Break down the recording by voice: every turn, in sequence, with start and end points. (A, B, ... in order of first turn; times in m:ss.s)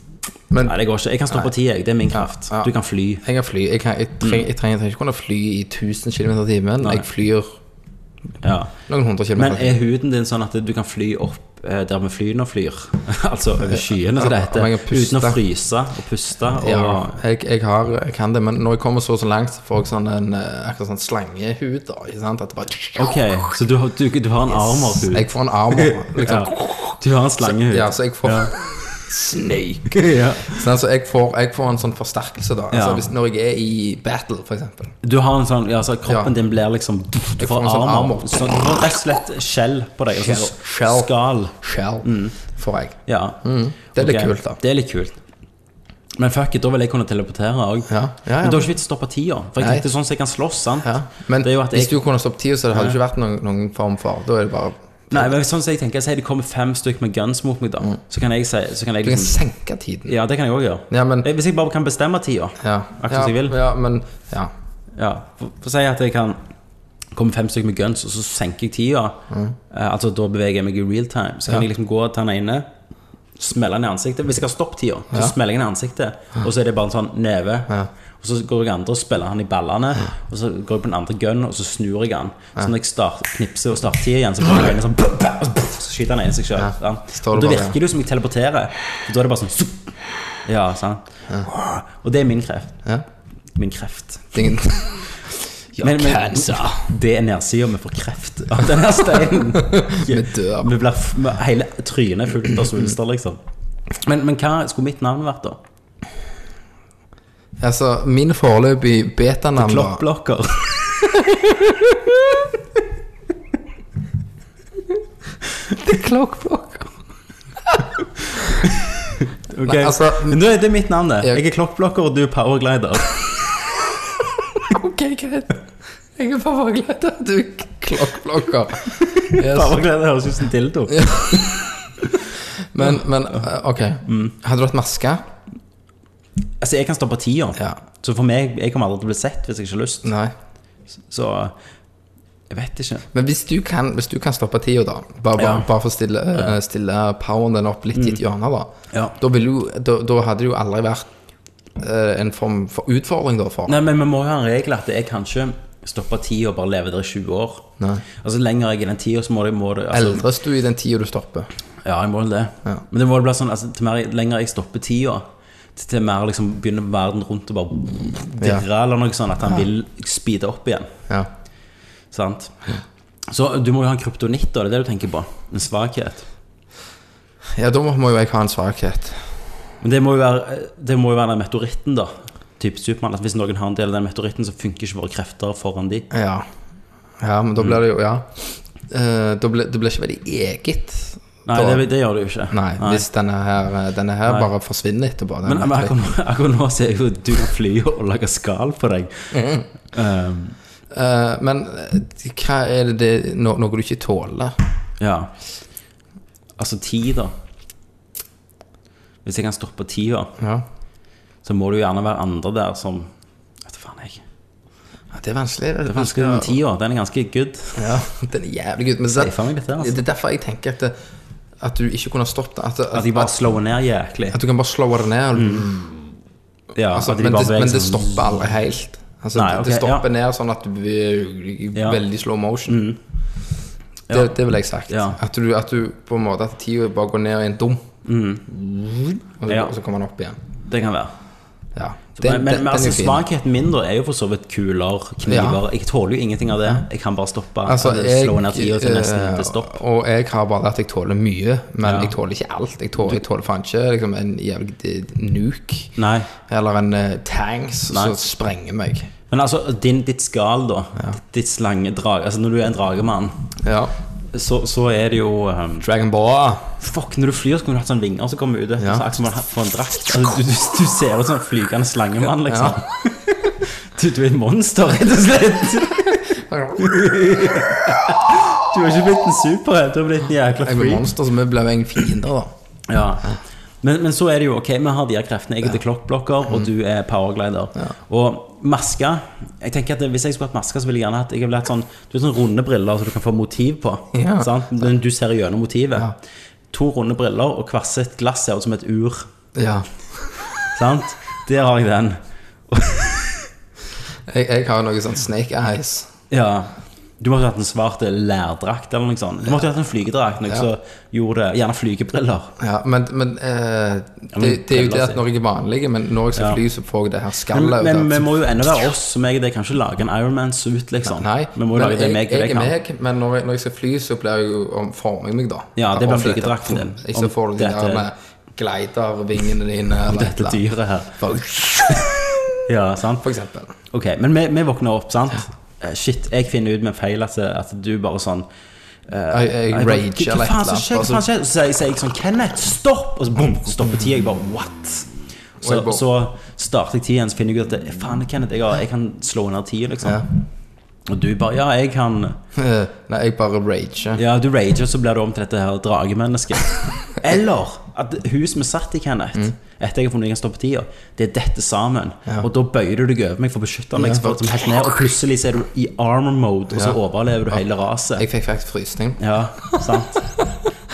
0:00.5-0:00.8 A
0:00.6-0:03.2 B
0:02.1-0:07.6 A
0:06.8-0:07.1 B
0:08.4-0:08.8 B
0:08.9-0:09.8 A
0:09.4-0:17.2 B
0:13.6-0:15.4 A
0:16.6-0:23.2 A
0:23.0-0:28.5 B
0:24.7-0:35.0 A
0:29.9-0:30.6 B
0:32.7-0:33.1 B
0:35.0-0:42.4 B
0:36.1-0:36.4 A
0:37.4-0:39.0 A
0:40.1-0:44.6 A
0:43.1-0:43.4 B
0:44.0-0:45.2 B
0:46.2-0:52.0 B
0:47.9-0:48.7 A
0:49.6-0:49.9 A
0:50.8-0:55.3 A
0:55.1-0:59.4 B
0:59.0-1:00.1 A
1:00.1-1:03.6 B
1:00.9-1:01.3 A
1:02.6-1:04.5 A
1:05.0-1:06.4 B
1:07.1-1:12.7 B
1:09.3-1:09.6 A
1:13.4-1:32.8 B
1:26.6-1:27.8 A
1:33.6-1:34.5 B
1:34.3-1:36.9 A
1:35.8-1:43.4 B
1:39.5-1:40.7 A
1:44.0-1:45.6 B
1:47.6-1:50.0 A
1:49.6-1:51.2 B
1:55.7-1:56.9 A
1:58.4-2:03.3 B
1:59.6-2:00.4 A
2:04.6-2:05.6 A
2:06.2-2:09.8 A
2:09.0-2:12.2 B
2:11.0-2:11.7 A
2:12.6-2:15.2 A
2:14.1-2:14.3 B
2:16.6-2:20.1 B
2:20.0-2:20.3 A
2:21.1-2:21.6 B
2:22.5-2:23.1 B
2:23.1-2:31.1 A
2:25.4-2:25.7 B
2:28.9-2:29.2 B
2:31.8-2:33.8 A
2:33.7-2:40.2 B
2:37.8-2:38.0 A
2:39.9-2:41.5 A
2:41.8-2:50.9 B
2:48.4-2:48.6 A
2:52.1-2:52.6 B
2:53.3-2:56.3 B
2:57.6-2:59.2 A
2:59.8-3:06.1 B
3:06.1-3:06.5 A
3:07.2-3:11.9 A
3:11.5-3:13.0 B
3:12.5-3:16.0 A
3:15.4-3:19.4 B
3:19.3-3:19.7 A
3:19.9-3:20.6 B
3:20.9-3:24.6 A
3:25.0-3:25.3 B
3:26.6-3:27.3 B
3:29.2-3:30.3 B
3:30.4-3:30.6 A
3:31.4-3:33.1 B
3:33.6-3:34.2 B
3:35.1-3:36.6 A
3:35.9-3:37.8 B
3:37.8-3:41.0 A
3:39.1-3:40.0 B
3:41.6-3:43.4 A
3:42.9-3:44.4 B
3:44.3-3:46.1 A
3:45.4-3:45.7 B
3:46.8-3:48.4 B
3:46.9-3:52.8 A
3:49.3-3:50.0 B
3:52.7-3:53.0 B
3:54.1-3:54.3 B
3:54.1-3:57.9 A
3:54.9-3:55.2 B
3:58.0-3:58.5 B
3:58.5-4:00.4 A
3:59.5-3:59.7 B
4:00.7-4:01.1 B
4:01.8-4:03.2 A
4:02.2-4:09.8 B
4:05.3-4:05.6 A
4:07.6-4:15.9 A
4:11.8-4:12.1 B
4:16.0-4:16.3 B
4:16.5-4:19.1 A
4:17.9-4:18.2 B
4:19.3-4:23.5 B
4:23.6-4:23.9 A
4:24.3-4:25.9 B
4:25.8-4:26.7 A
4:26.8-4:41.1 B
4:28.8-4:29.0 A
4:32.5-4:32.8 A
4:36.3-4:37.1 A
4:40.6-4:42.5 A
4:42.9-4:56.2 B
4:54.1-4:54.5 A
4:56.7-4:59.3 B
4:59.6-5:00.4 A
5:00.6-5:03.5 B
5:04.3-5:06.1 A
5:06.3-5:12.6 B
5:12.6-5:18.3 A
5:14.3-5:15.2 B
5:17.5-5:22.7 B
5:21.0-5:30.6 A
5:25.8-5:28.1 B
5:30.1-5:31.2 B
5:31.1-5:32.6 A
5:32.6-5:33.3 B
5:33.2-5:33.7 A
5:33.9-5:38.5 B
5:39.1-5:50.4 B
5:39.3-5:41.2 A
5:45.6-5:46.0 A
5:51.1-5:52.4 B
5:52.6-5:54.2 A
5:54.2-6:08.2 B
6:04.0-6:04.7 A
6:08.2-6:09.7 A
6:09.2-6:10.3 B